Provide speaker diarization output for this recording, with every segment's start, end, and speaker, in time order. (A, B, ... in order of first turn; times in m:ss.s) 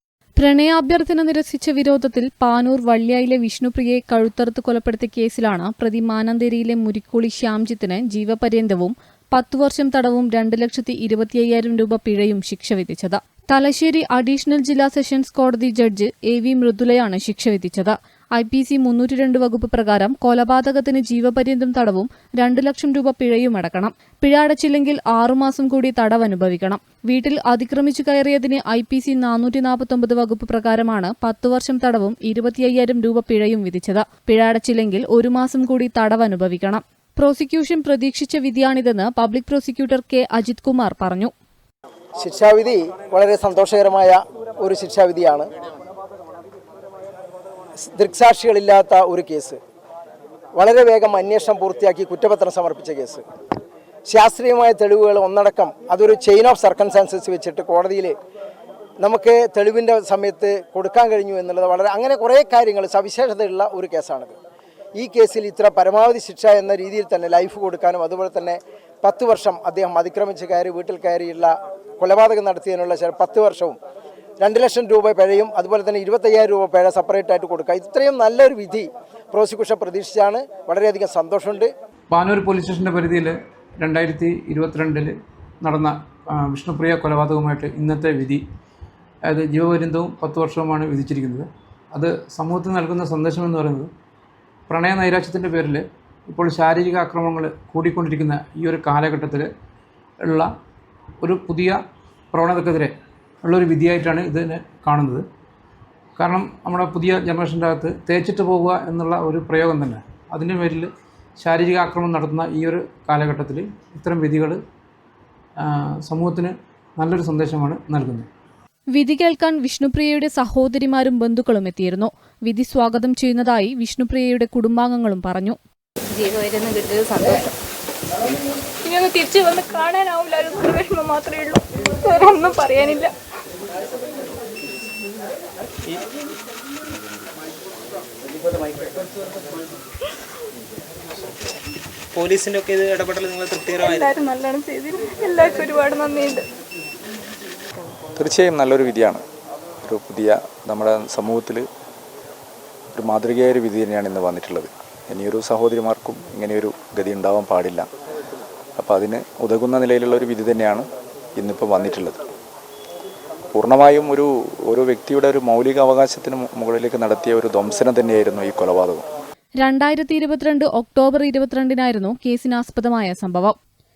0:00.4-0:41.3 A
0:42.2-0:45.5 B
0:47.9-0:49.6 B
0:50.6-0:53.2 B
0:54.1-0:58.2 B
0:59.0-1:04.3 B
1:05.0-1:13.8 B
1:14.4-1:21.7 B
1:22.1-1:28.4 C
1:29.3-1:33.9 C
1:34.7-1:39.5 C
1:40.2-1:40.5 C
1:41.2-1:41.8 C
1:42.3-1:45.2 C
1:46.2-1:54.6 C
1:55.6-1:58.3 C
1:59.0-2:05.6 A
2:06.1-2:07.5 D
2:08.8-2:13.1 D
2:22.1-2:24.2 E
2:23.8-2:26.5 D
2:28.2-2:29.2 F
2:29.8-2:31.7 F
2:32.9-2:37.9 F
2:38.8-2:42.2 F
2:43.5-2:49.0 F
2:49.6-2:53.6 A